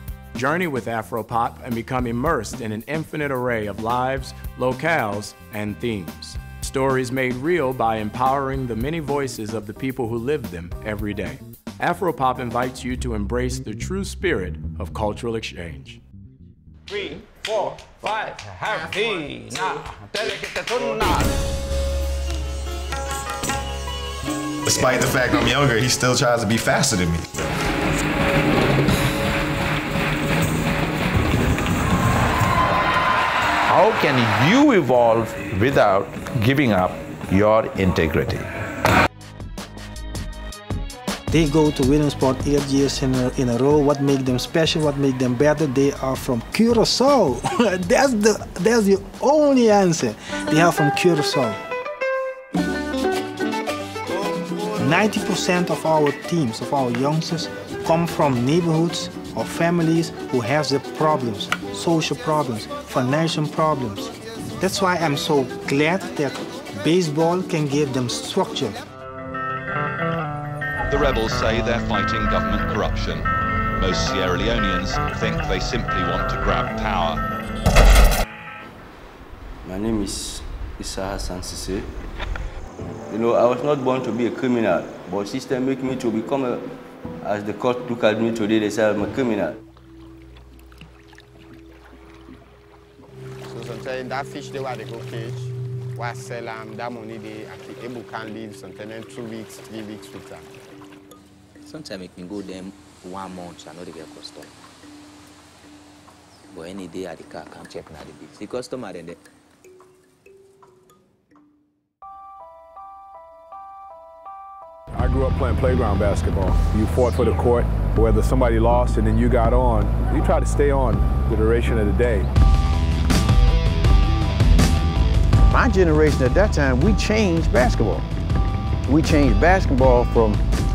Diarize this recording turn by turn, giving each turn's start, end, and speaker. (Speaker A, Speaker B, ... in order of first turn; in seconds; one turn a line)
Speaker A: 0.3-16.0
Speaker B: 16.9-21.3
Speaker C: 24.6-27.2
Speaker D: 33.7-38.5
Speaker E: 41.3-51.6
Speaker E: 54.7-68.8
Speaker F: 70.9-77.2
Speaker G: 79.6-81.9
Speaker G: 83.1-86.7
Speaker G: 87.2-89.6
Speaker H: 93.5-100.5
Speaker I: 101.6-104.5
Speaker I: 106.5-109.2
Speaker J: 115.0-122.3
Speaker K: 125.5-128.1
Speaker K: 128.8-130.4